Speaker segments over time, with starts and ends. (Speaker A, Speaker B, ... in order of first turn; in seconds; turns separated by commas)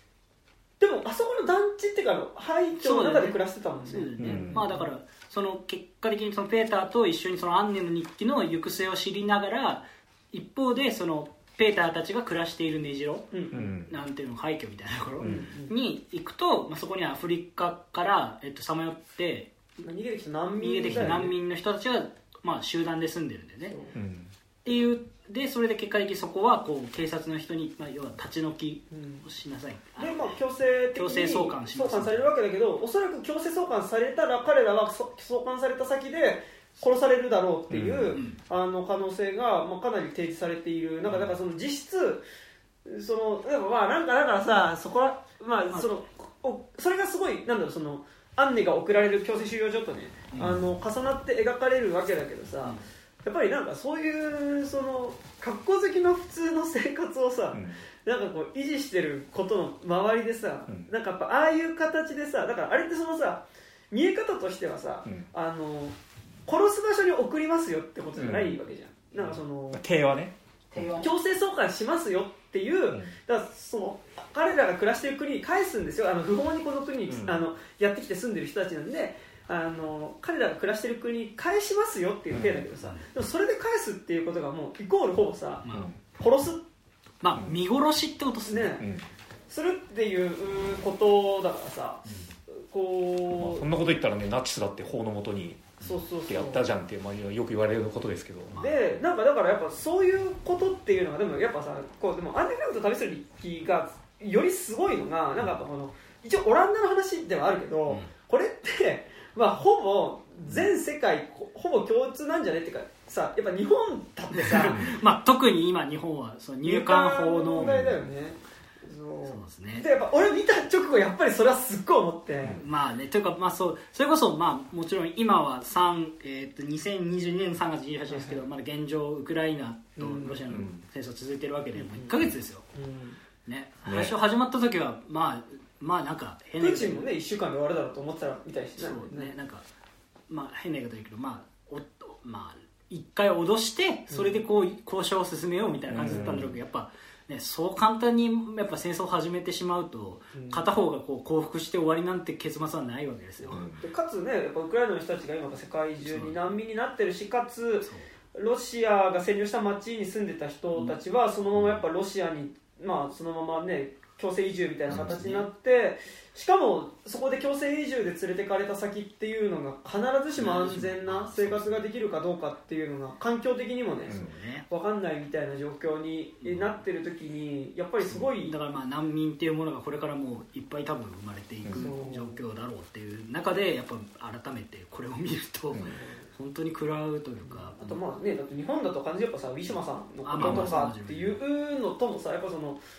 Speaker A: 0.8-4.9, Speaker B: 2.8-19.5, Speaker C: 4.2-4.6, Speaker A: 13.3-13.7, Speaker C: 13.5-13.9, Speaker A: 15.2-15.7, Speaker A: 19.8-21.3, Speaker B: 20.6-23.8, Speaker C: 20.9-21.2, Speaker A: 23.7-23.9, Speaker C: 23.9-24.3, Speaker B: 24.6-30.4, Speaker A: 28.9-29.3, Speaker A: 30.0-42.2, Speaker B: 30.9-32.3, Speaker C: 37.7-38.2, Speaker B: 38.1-38.4, Speaker A: 42.9-69.8, Speaker B: 50.3-50.6, Speaker C: 50.4-50.7, Speaker C: 57.5-57.8, Speaker C: 68.2-68.6, Speaker C: 69.2-71.1, Speaker B: 70.8-71.1, Speaker A: 71.0-86.6, Speaker C: 77.1-77.4, Speaker C: 82.3-82.7, Speaker B: 82.8-83.1, Speaker B: 85.6-85.9, Speaker C: 85.7-86.0, Speaker B: 87.2-88.8, Speaker A: 88.5-88.8, Speaker C: 88.8-89.1, Speaker A: 89.5-93.7, Speaker B: 92.1-92.3, Speaker C: 93.4-98.5, Speaker A: 95.8-96.7, Speaker B: 98.5-99.0, Speaker A: 98.6-114.8, Speaker B: 114.3-117.7, Speaker A: 116.6-122.6, Speaker C: 117.6-118.1, Speaker B: 119.2-119.9, Speaker B: 122.6-132.7, Speaker A: 128.1-128.4, Speaker A: 130.0-130.5, Speaker C: 130.5-130.8, Speaker A: 131.8-132.2, Speaker A: 132.7-133.2, Speaker B: 133.4-137.1, Speaker C: 133.9-134.1, Speaker A: 136.6-139.3, Speaker B: 138.8-139.7, Speaker B: 140.3-153.7, Speaker A: 144.1-144.4, Speaker A: 145.7-146.4, Speaker C: 145.9-146.6, Speaker A: 150.3-150.6, Speaker C: 153.5-153.8, Speaker A: 153.8-178.5, Speaker B: 156.0-156.4, Speaker B: 157.8-158.1, Speaker C: 161.5-161.8, Speaker C: 164.9-165.2, Speaker B: 164.9-165.5, Speaker B: 170.4-171.9, Speaker B: 174.1-174.7, Speaker B: 176.4-176.8, Speaker B: 178.4-187.8, Speaker A: 181.7-182.4, Speaker A: 185.9-186.3, Speaker A: 187.5-192.8, Speaker B: 190.2-191.4, Speaker C: 190.4-190.8